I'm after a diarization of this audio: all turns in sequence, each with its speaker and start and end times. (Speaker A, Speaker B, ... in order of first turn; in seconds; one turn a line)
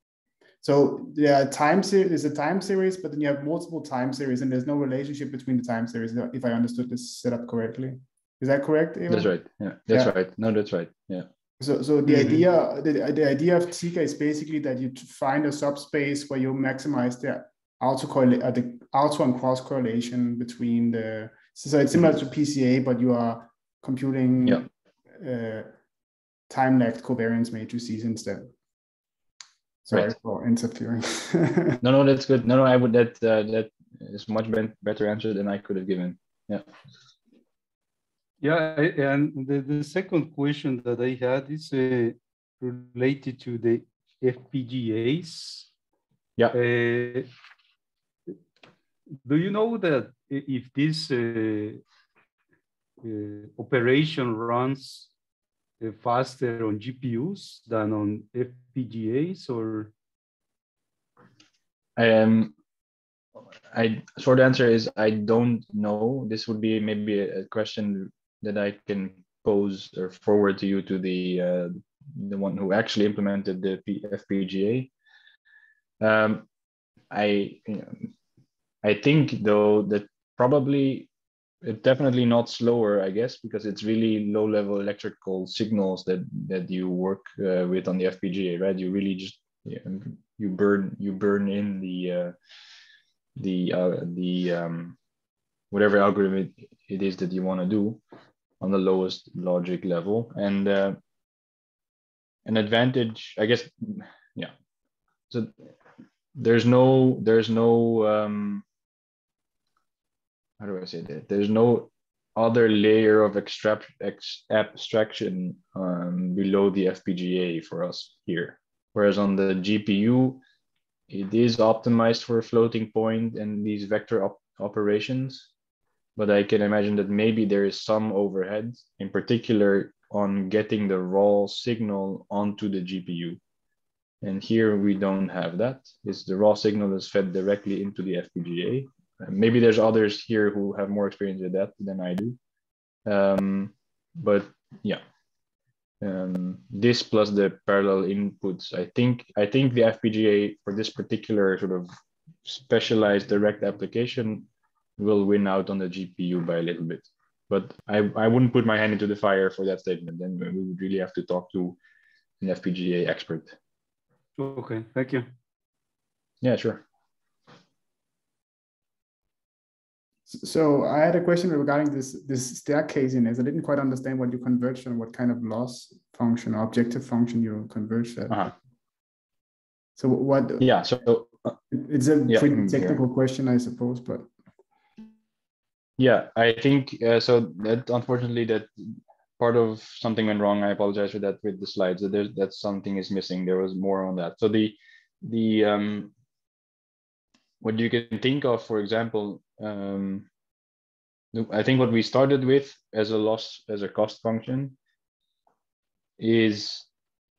Speaker A: 0.6-9.3
Speaker B: 9.1-11.3
Speaker A: 11.6-25.7
Speaker C: 12.1-12.3
Speaker A: 26.5-28.5
Speaker A: 29.8-31.8
Speaker B: 31.8-36.6
Speaker C: 38.4-45.7
Speaker C: 46.5-47.3
Speaker C: 49.2-51.8
Speaker C: 53.0-55.1
Speaker C: 55.8-59.9
Speaker B: 62.0-62.5
Speaker B: 63.7-74.9
Speaker B: 76.0-76.5
Speaker B: 77.1-78.1
Speaker B: 78.8-81.1
Speaker B: 81.6-92.3
Speaker B: 93.3-95.0
Speaker B: 95.7-98.0
Speaker B: 98.6-101.0
Speaker B: 102.5-104.5
Speaker B: 105.3-105.7
Speaker B: 106.3-108.6
Speaker B: 110.6-120.4
Speaker B: 121.1-125.5
Speaker B: 126.2-133.4
Speaker B: 134.2-142.4
Speaker B: 143.1-145.0
Speaker B: 146.0-151.9
Speaker B: 152.4-154.5
Speaker B: 155.0-161.8
Speaker B: 162.4-163.6
Speaker C: 164.4-165.3
Speaker B: 166.4-166.8
Speaker A: 170.3-178.4
Speaker A: 180.0-180.7
Speaker B: 180.6-181.3
Speaker A: 181.7-184.3
Speaker B: 182.3-183.0
Speaker B: 186.0-196.1
Speaker B: 197.6-200.3
Speaker B: 201.3-204.8
Speaker B: 206.2-206.9